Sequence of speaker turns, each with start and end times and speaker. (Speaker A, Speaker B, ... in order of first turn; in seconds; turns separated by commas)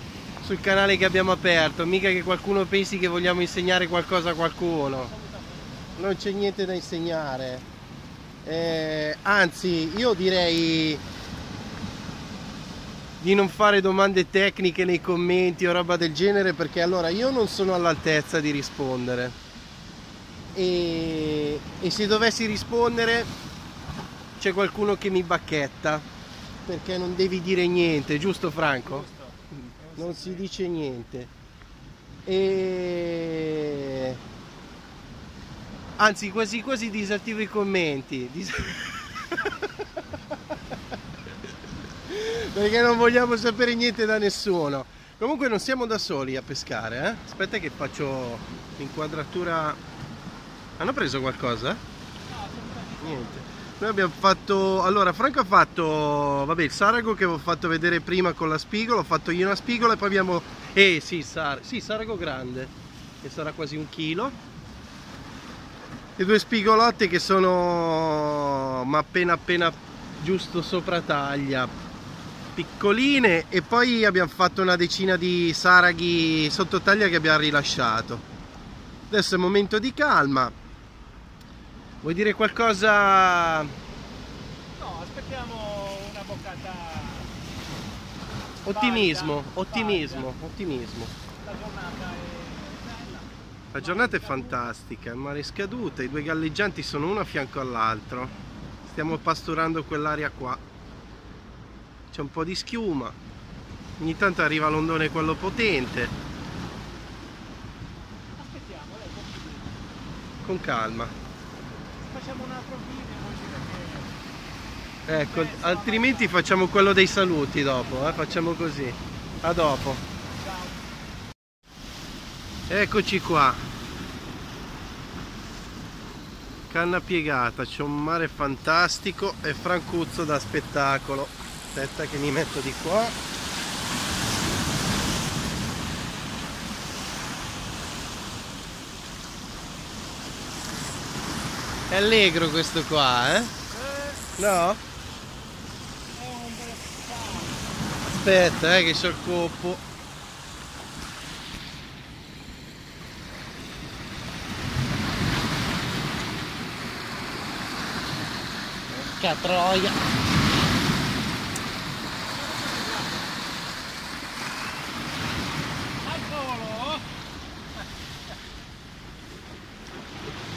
Speaker A: 0.4-5.1, Speaker B: 5.0-6.0, Speaker A: 6.0-7.7, Speaker A: 8.4-11.0, Speaker A: 13.2-19.4, Speaker A: 20.5-23.3, Speaker A: 24.4-26.0, Speaker A: 26.6-29.1, Speaker B: 28.8-30.4, Speaker A: 30.0-31.3, Speaker A: 32.2-34.2, Speaker A: 36.0-39.9, Speaker A: 42.1-49.8, Speaker A: 50.8-51.8, Speaker B: 52.3-53.5, Speaker A: 53.0-64.4, Speaker A: 66.2-71.7, Speaker A: 72.5-78.2, Speaker A: 79.1-80.5, Speaker A: 82.0-83.7, Speaker B: 84.8-87.3, Speaker A: 88.6-91.1, Speaker B: 88.7-90.3, Speaker B: 91.4-94.6, Speaker A: 93.7-98.3, Speaker A: 98.8-100.6, Speaker A: 102.1-103.2, Speaker A: 104.0-106.1, Speaker B: 108.3-109.8, Speaker A: 110.4-111.1, Speaker B: 112.0-114.2, Speaker A: 115.1-120.0, Speaker B: 115.2-116.4, Speaker B: 120.3-120.8, Speaker A: 122.7-123.6, Speaker A: 126.7-133.1, Speaker A: 141.9-143.5, Speaker B: 143.7-144.2, Speaker A: 144.4-144.8, Speaker B: 146.1-147.6, Speaker A: 148.0-149.8, Speaker A: 158.9-160.0, Speaker B: 162.3-163.3, Speaker B: 166.0-167.0